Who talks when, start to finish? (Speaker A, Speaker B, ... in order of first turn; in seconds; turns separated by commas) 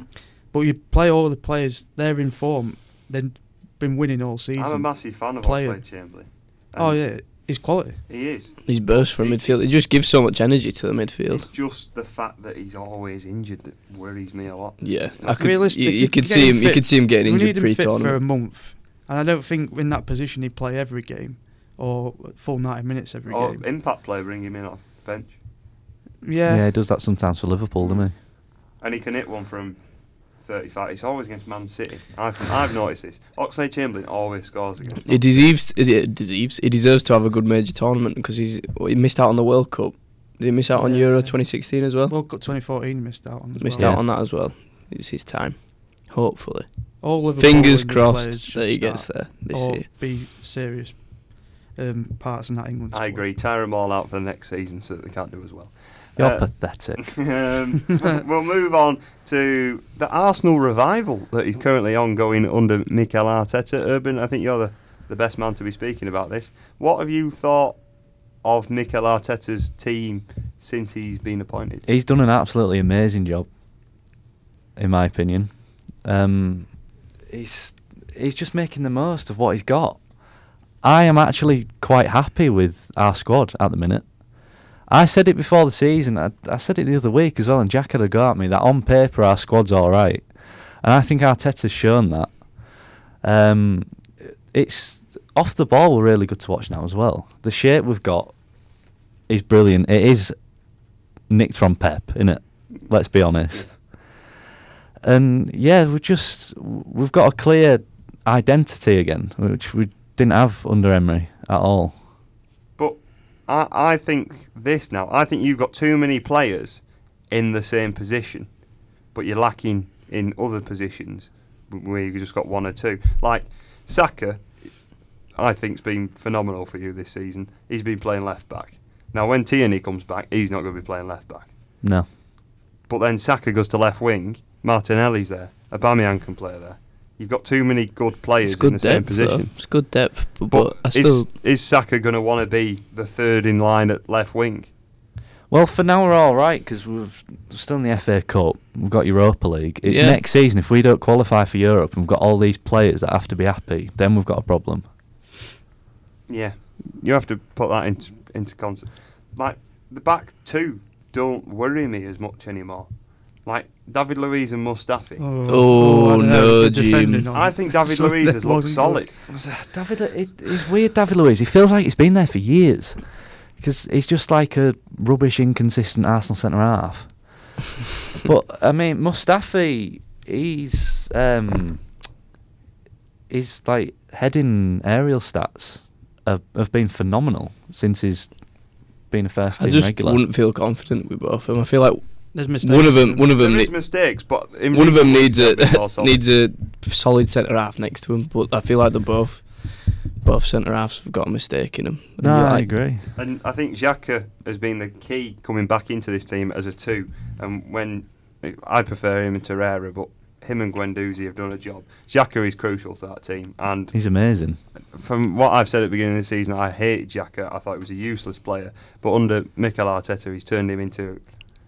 Speaker A: 0.5-5.8, Speaker B: 4.6-7.1, Speaker A: 6.8-8.0, Speaker B: 8.1-9.6, Speaker C: 8.7-11.5, Speaker B: 11.3-15.5, Speaker C: 14.8-18.2, Speaker A: 15.3-23.6, Speaker B: 23.3-25.4, Speaker A: 26.2-26.6, Speaker D: 26.5-28.1, Speaker B: 27.8-28.1, Speaker B: 28.8-35.4, Speaker C: 35.0-42.1, Speaker A: 40.7-44.0, Speaker C: 43.6-49.8, Speaker D: 43.8-44.0, Speaker A: 47.0-53.2, Speaker B: 52.9-67.8, Speaker D: 56.2-57.3, Speaker B: 68.4-71.8, Speaker D: 71.8-73.5, Speaker D: 74.8-80.0, Speaker D: 80.8-84.1, Speaker D: 84.9-90.3, Speaker D: 90.8-92.4, Speaker D: 93.2-98.3, Speaker D: 99.3-100.3, Speaker D: 101.3-103.9, Speaker D: 105.0-112.0, Speaker B: 112.8-118.5, Speaker B: 119.1-131.5, Speaker D: 131.8-132.1, Speaker B: 132.9-144.7, Speaker C: 138.4-141.3, Speaker D: 145.5-154.8, Speaker C: 149.8-150.2, Speaker B: 156.3-162.9, Speaker B: 163.4-165.3, Speaker A: 165.2-169.0, Speaker C: 165.5-167.3, Speaker B: 167.3-169.1, Speaker D: 169.3-173.0, Speaker D: 173.6-177.2, Speaker D: 178.2-181.8, Speaker D: 183.3-188.3, Speaker D: 189.1-190.2, Speaker C: 189.6-193.7, Speaker A: 192.3-193.3, Speaker B: 193.3-196.2, Speaker C: 194.7-202.7, Speaker D: 202.2-203.0, Speaker B: 203.1-213.9, Speaker D: 213.9-214.6, Speaker B: 214.9-221.3